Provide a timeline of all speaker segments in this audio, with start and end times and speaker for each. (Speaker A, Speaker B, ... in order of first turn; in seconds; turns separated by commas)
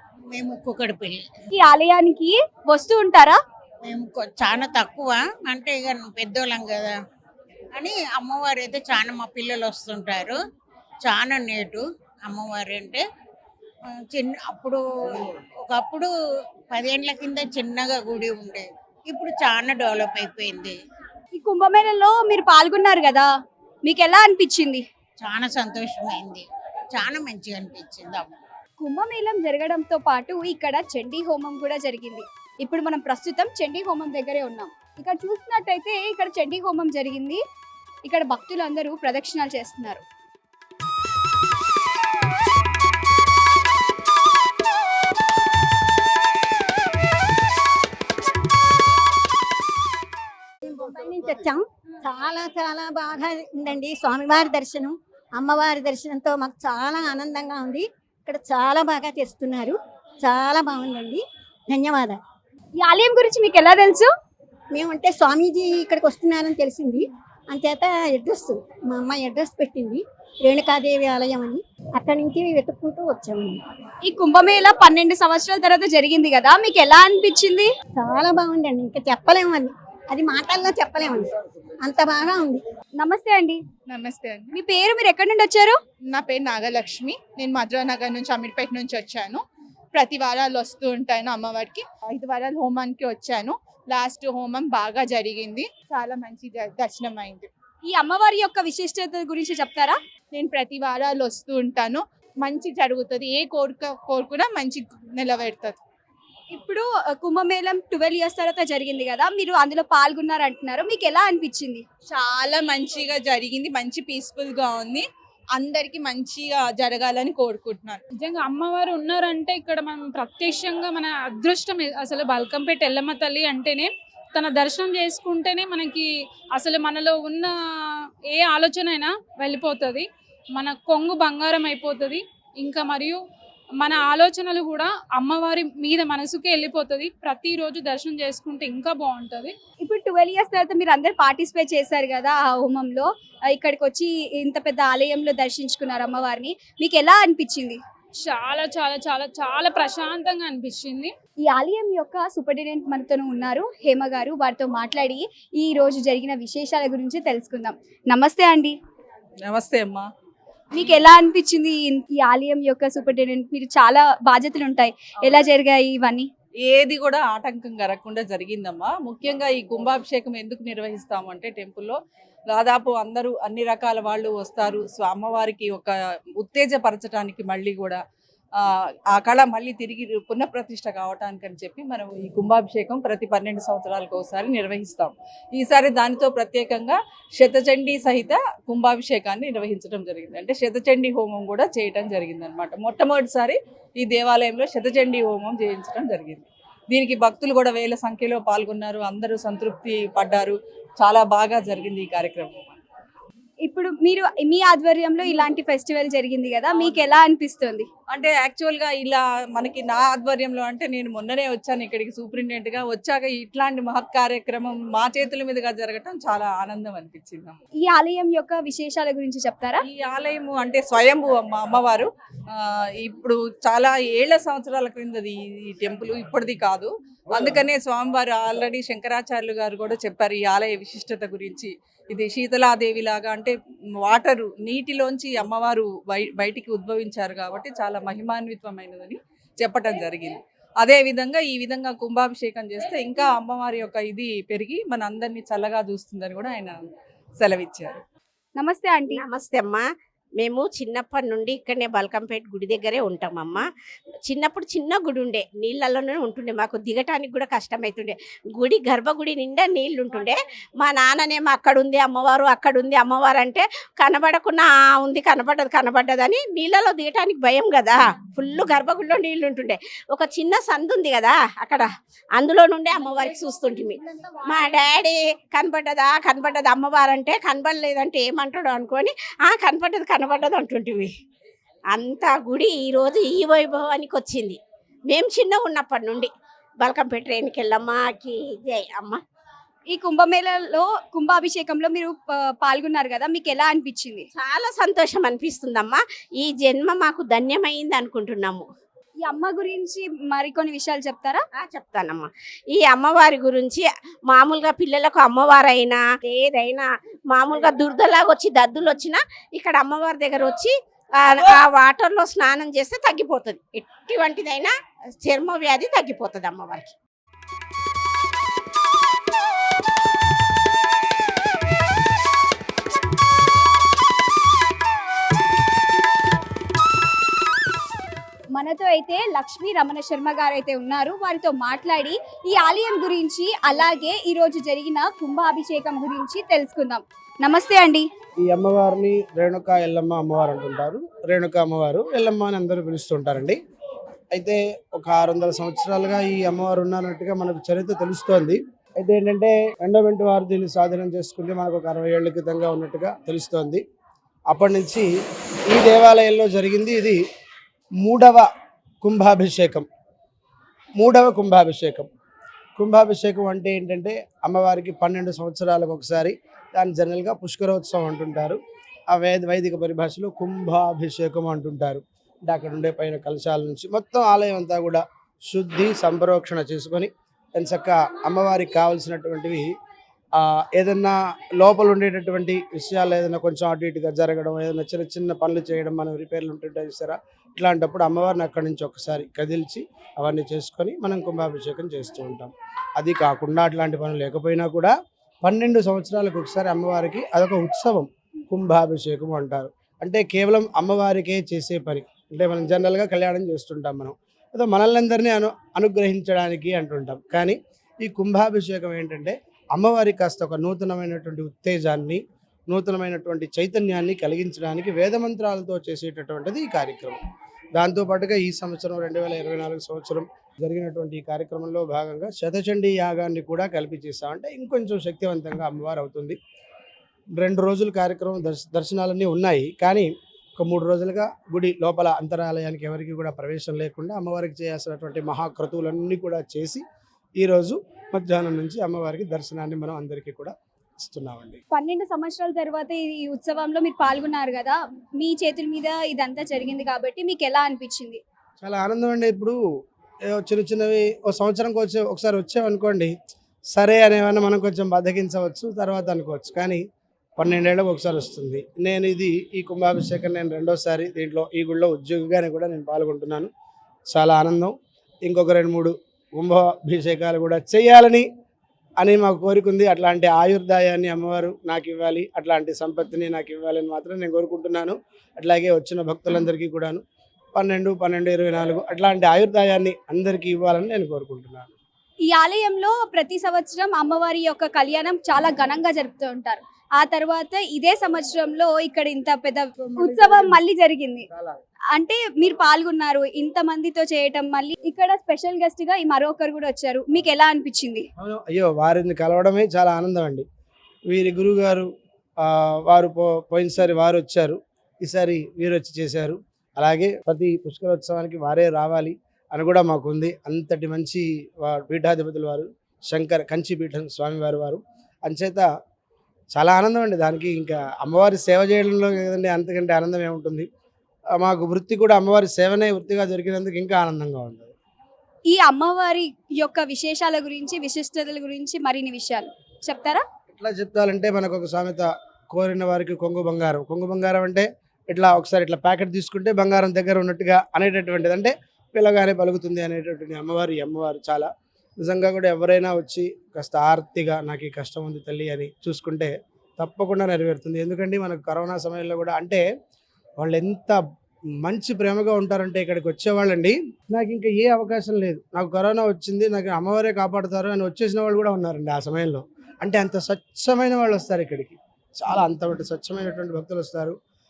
Speaker A: 0.3-1.4, Speaker B: 1.6-3.4, Speaker A: 3.8-7.0, Speaker A: 7.7-10.4, Speaker A: 11.0-13.0, Speaker A: 13.9-14.8, Speaker A: 15.6-16.1, Speaker A: 16.7-20.8, Speaker B: 21.4-23.3, Speaker B: 23.8-24.8, Speaker A: 25.2-28.4, Speaker B: 28.8-37.4, Speaker B: 38.0-40.0, Speaker C: 50.6-62.2, Speaker B: 62.8-64.1, Speaker C: 64.7-73.6, Speaker B: 74.1-77.7, Speaker C: 77.9-82.6, Speaker B: 83.0-83.6, Speaker D: 83.9-84.5, Speaker B: 84.5-85.8, Speaker D: 86.1-89.4, Speaker D: 89.9-97.5, Speaker B: 97.9-100.0, Speaker D: 100.3-105.8, Speaker B: 106.5-111.8, Speaker D: 112.1-115.0, Speaker D: 115.6-118.0, Speaker E: 118.1-127.5, Speaker E: 128.3-133.2, Speaker E: 133.8-139.5, Speaker B: 139.8-147.8, Speaker E: 148.2-151.1, Speaker B: 151.5-158.7, Speaker F: 159.5-160.1, Speaker B: 160.7-166.3, Speaker F: 166.6-172.0, Speaker F: 172.5-178.0, Speaker F: 179.1-202.8, Speaker B: 203.7-207.9, Speaker F: 206.8-207.2, Speaker F: 208.1-217.6, Speaker B: 217.8-219.8, Speaker F: 219.8-246.8, Speaker F: 247.4-248.0, Speaker B: 248.6-249.2, Speaker G: 249.1-249.8, Speaker G: 250.4-253.7, Speaker G: 254.2-281.1, Speaker G: 281.9-289.2, Speaker B: 289.9-294.3, Speaker G: 294.4-298.6, Speaker B: 299.2-301.4, Speaker G: 301.6-316.9, Speaker B: 328.6-338.0, Speaker H: 338.4-343.6, Speaker H: 344.3-353.8, Speaker H: 354.5-355.1, Speaker H: 355.7-357.2, Speaker H: 358.0-358.5, Speaker H: 359.0-359.9, Speaker H: 361.0-362.1, Speaker H: 362.8-368.6, Speaker H: 369.1-379.7, Speaker H: 380.4-417.2, Speaker H: 417.7-426.4, Speaker H: 427.4-436.8, Speaker H: 437.4-441.6, Speaker B: 441.7-448.2, Speaker H: 448.6-449.6, Speaker H: 450.3-453.1, Speaker H: 453.7-456.8, Speaker H: 457.4-463.5, Speaker H: 464.1-464.7, Speaker H: 465.2-468.3, Speaker H: 469.0-477.0, Speaker H: 477.5-481.7, Speaker B: 482.3-491.2, Speaker H: 489.8-490.6, Speaker H: 491.3-491.6, Speaker B: 491.9-498.1, Speaker H: 498.2-500.4, Speaker H: 501.1-501.9, Speaker H: 502.4-515.6, Speaker H: 516.5-520.7, Speaker H: 521.4-524.7, Speaker B: 525.5-530.2, Speaker H: 530.5-541.5, Speaker H: 542.0-549.6, Speaker H: 550.4-551.0, Speaker H: 551.6-564.1